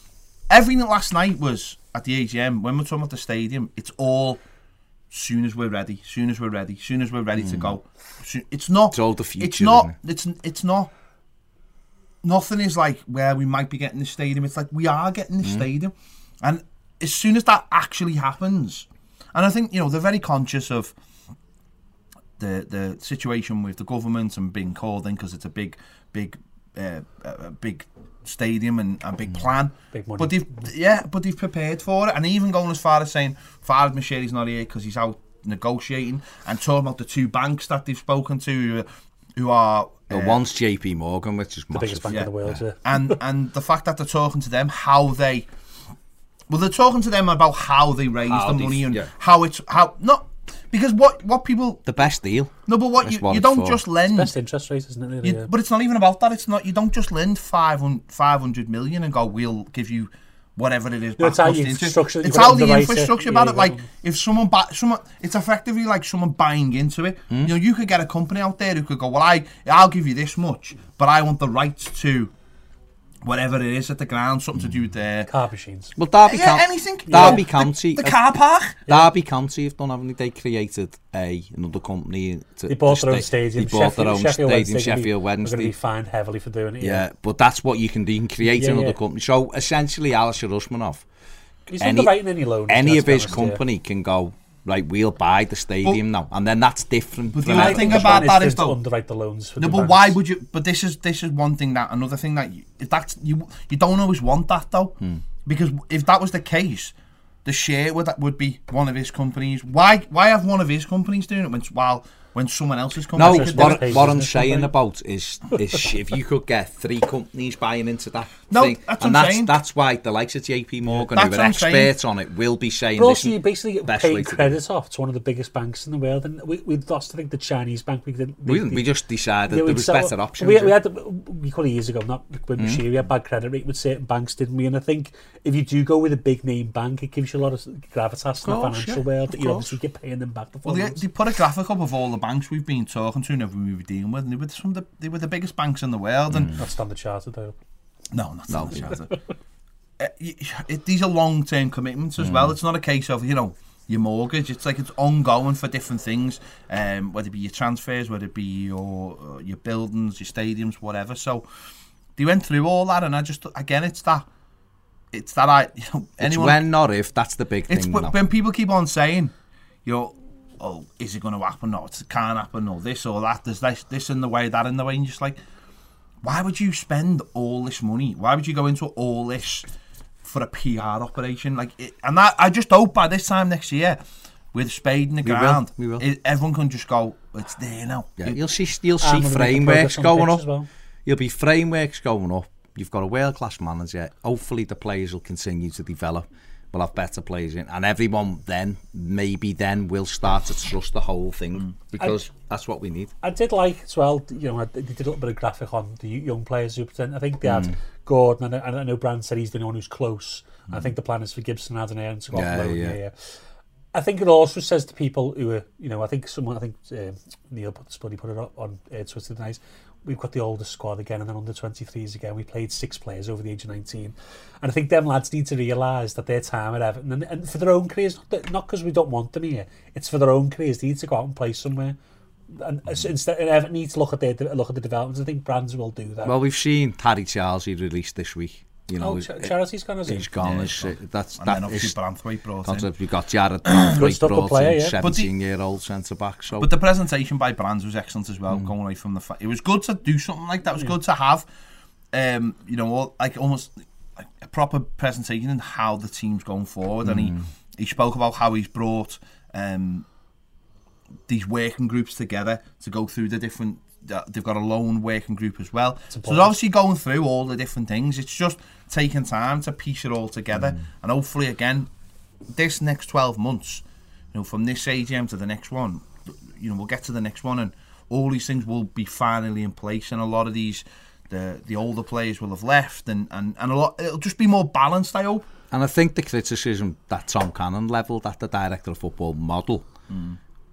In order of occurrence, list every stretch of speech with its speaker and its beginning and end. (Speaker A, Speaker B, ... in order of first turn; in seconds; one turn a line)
Speaker A: 0.5-4.4
Speaker A: 5.1-10.9
Speaker B: 7.4-7.8
Speaker B: 8.9-9.9
Speaker A: 12.2-20.9
Speaker A: 22.4-40.4
Speaker C: 29.9-30.5
Speaker B: 40.1-42.6
Speaker C: 41.7-43.2
Speaker A: 42.8-45.5
Speaker A: 46.5-51.9
Speaker B: 48.3-49.1
Speaker B: 51.9-53.8
Speaker A: 52.6-54.3
Speaker C: 54.1-55.5
Speaker A: 55.2-72.3
Speaker C: 61.2-63.8
Speaker A: 73.2-75.3
Speaker C: 75.3-76.0
Speaker B: 76.0-78.2
Speaker A: 76.2-78.8
Speaker C: 77.1-77.4
Speaker B: 78.9-85.7
Speaker C: 82.7-87.0
Speaker B: 86.8-91.0
Speaker C: 88.4-89.0
Speaker C: 91.7-93.6
Speaker B: 91.8-98.3
Speaker A: 97.3-98.8
Speaker C: 97.5-100.2
Speaker A: 99.6-106.9
Speaker A: 107.4-114.0
Speaker B: 113.1-124.6
Speaker C: 113.2-114.7
Speaker A: 118.5-119.5
Speaker A: 121.0-121.9
Speaker C: 123.0-128.8
Speaker B: 128.4-130.8
Speaker C: 129.5-141.0
Speaker B: 132.6-132.8
Speaker B: 138.4-139.7
Speaker A: 140.7-146.6
Speaker B: 146.3-146.6
Speaker C: 146.5-147.5
Speaker A: 148.1-149.2
Speaker B: 148.5-148.9
Speaker A: 150.0-161.5
Speaker B: 152.2-152.6
Speaker A: 162.2-164.3
Speaker A: 165.1-166.6
Speaker B: 166.2-168.2
Speaker A: 167.7-169.3
Speaker A: 169.8-175.4
Speaker A: 176.2-179.7
Speaker A: 180.2-184.0
Speaker A: 184.5-188.3
Speaker B: 185.2-186.0
Speaker B: 188.2-190.4
Speaker C: 189.0-190.7
Speaker B: 191.1-203.1
Speaker C: 203.2-213.1
Speaker B: 207.4-207.7
Speaker B: 212.3-213.0
Speaker C: 213.9-231.9
Speaker C: 232.5-236.3
Speaker B: 236.2-239.5
Speaker C: 239.0-240.3
Speaker B: 240.1-241.9
Speaker A: 240.4-242.9
Speaker B: 242.6-246.7
Speaker C: 243.8-245.0
Speaker A: 245.0-245.3
Speaker A: 246.6-251.5
Speaker A: 252.1-260.1
Speaker B: 257.0-257.4
Speaker A: 261.3-271.9
Speaker C: 266.1-266.5
Speaker A: 272.5-285.5
Speaker B: 285.7-289.9
Speaker A: 290.1-290.4